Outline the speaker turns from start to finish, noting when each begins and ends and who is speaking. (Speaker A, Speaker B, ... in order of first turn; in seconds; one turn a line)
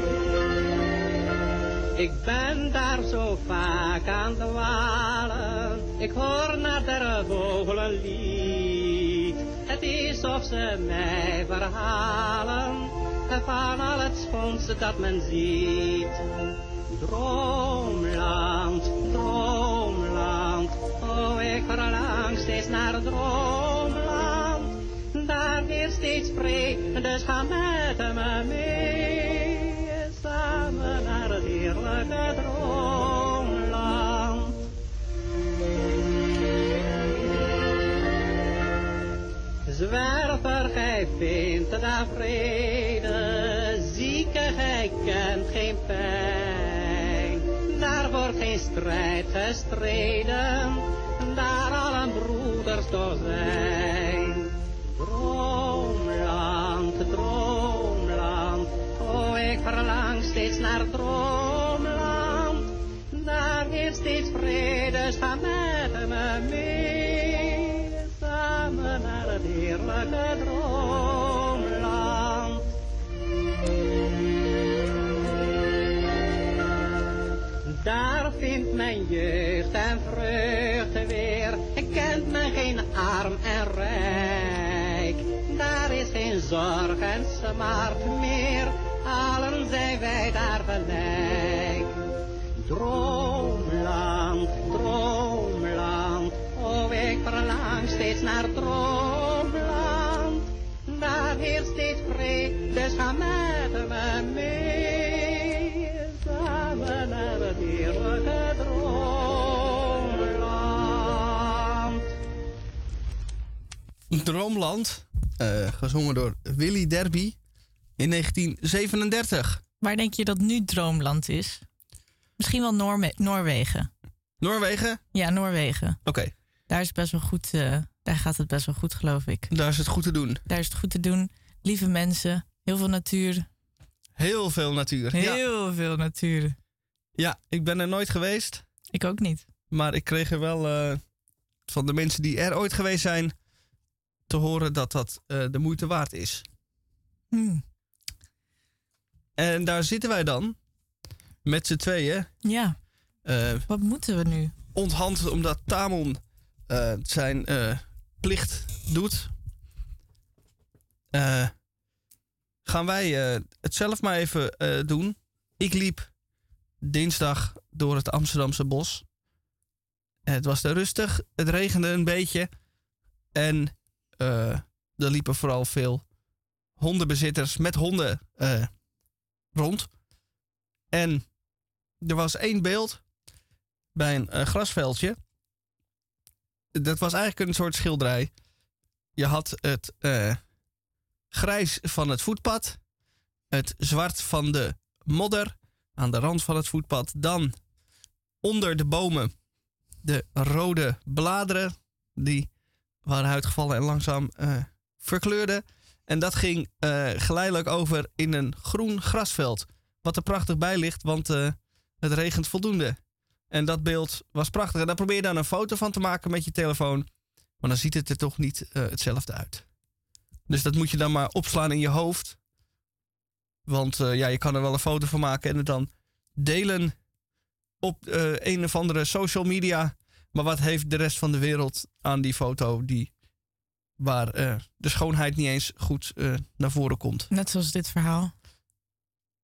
Speaker A: 1.9-16.2
Speaker A: 17.0-34.6
Speaker A: 39.7-72.7
Speaker A: 77.7-91.9
Speaker A: 92.6-112.0
Speaker B: 114.1-117.4
Speaker B: 118.0-119.6
Speaker C: 119.8-121.6
Speaker C: 122.4-123.9
Speaker B: 124.4-125.0
Speaker C: 125.1-126.0
Speaker B: 126.0-126.3
Speaker C: 126.7-129.5
Speaker B: 129.5-130.4
Speaker C: 130.5-133.5
Speaker B: 134.2-135.4
Speaker C: 135.1-136.6
Speaker B: 137.2-138.6
Speaker C: 138.9-139.4
Speaker B: 139.7-141.0
Speaker B: 141.7-143.3
Speaker B: 144.3-146.4
Speaker C: 147.3-147.6
Speaker B: 149.4-150.6
Speaker B: 151.4-152.3
Speaker C: 152.4-152.8
Speaker B: 153.2-153.7
Speaker C: 153.7-154.5
Speaker B: 154.7-159.3
Speaker B: 161.1-161.5
Speaker B: 162.6-166.1
Speaker B: 166.8-169.0
Speaker B: 170.2-172.5
Speaker B: 173.3-176.0
Speaker B: 176.8-178.7
Speaker B: 179.5-179.9
Speaker B: 180.9-181.3
Speaker B: 182.0-183.0
Speaker B: 183.9-185.2
Speaker B: 186.7-188.3
Speaker B: 189.2-190.4
Speaker B: 191.3-192.8
Speaker B: 193.5-197.6
Speaker B: 198.4-199.3
Speaker B: 200.0-202.5
Speaker B: 203.0-213.0
Speaker B: 213.5-217.1
Speaker B: 217.6-219.7
Speaker B: 220.5-222.4
Speaker B: 223.7-226.9
Speaker B: 227.8-233.1
Speaker B: 234.0-237.3
Speaker C: 237.3-238.3